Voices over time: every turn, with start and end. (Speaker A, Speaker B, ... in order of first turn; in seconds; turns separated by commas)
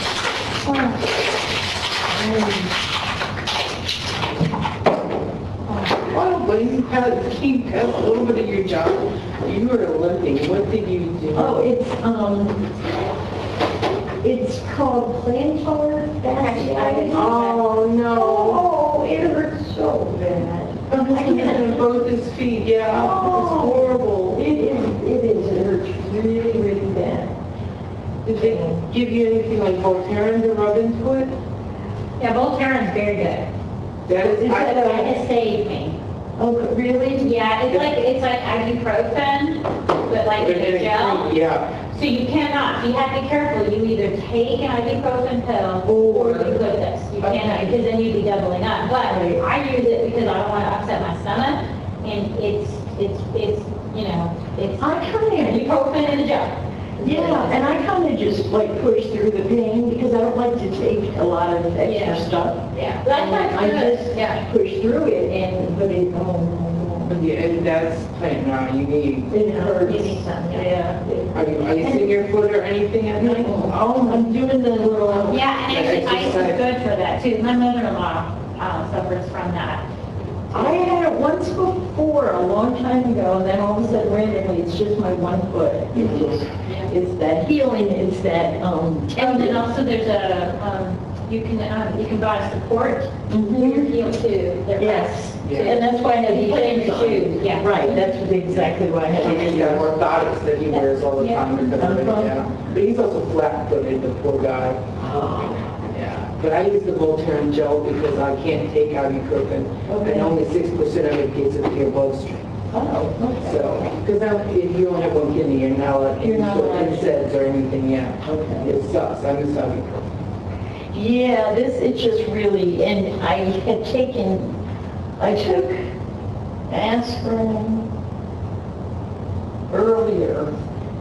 Speaker A: 2.1-2.6, Speaker B: 6.1-11.6, Speaker A: 11.3-12.7, Speaker A: 14.2-17.3, Speaker C: 16.3-17.7, Speaker B: 17.1-18.6, Speaker A: 18.1-21.9, Speaker B: 20.9-24.4, Speaker A: 22.9-27.3, Speaker B: 28.2-31.4, Speaker A: 28.3-28.8, Speaker C: 32.2-33.5, Speaker B: 34.1-35.2, Speaker A: 34.2-35.1, Speaker C: 34.5-36.0, Speaker A: 36.4-37.3, Speaker C: 37.2-41.3, Speaker B: 37.7-38.0, Speaker B: 40.4-41.8, Speaker C: 41.9-57.6, Speaker A: 45.9-46.5, Speaker B: 46.0-46.6, Speaker A: 47.2-47.6, Speaker A: 49.0-49.4, Speaker A: 54.8-55.7, Speaker A: 57.0-67.2, Speaker C: 61.8-64.4, Speaker B: 67.1-69.3, Speaker A: 69.3-72.2, Speaker C: 69.5-70.7, Speaker B: 71.3-74.3, Speaker A: 73.2-75.5, Speaker C: 75.3-79.8, Speaker B: 75.7-76.6, Speaker A: 80.5-89.6, Speaker B: 85.9-86.4, Speaker C: 86.6-86.9, Speaker C: 89.1-98.2, Speaker A: 93.3-94.0, Speaker A: 94.8-99.9, Speaker B: 95.4-95.8, Speaker B: 98.5-104.8, Speaker C: 100.7-101.7, Speaker A: 101.8-102.3, Speaker A: 105.0-105.8, Speaker B: 105.9-112.5, Speaker A: 109.9-110.3, Speaker A: 112.7-113.8, Speaker B: 113.4-120.1, Speaker A: 116.2-117.1, Speaker A: 118.2-118.7, Speaker A: 120.9-124.6, Speaker A: 125.2-125.8, Speaker A: 126.7-127.9, Speaker A: 129.7-130.5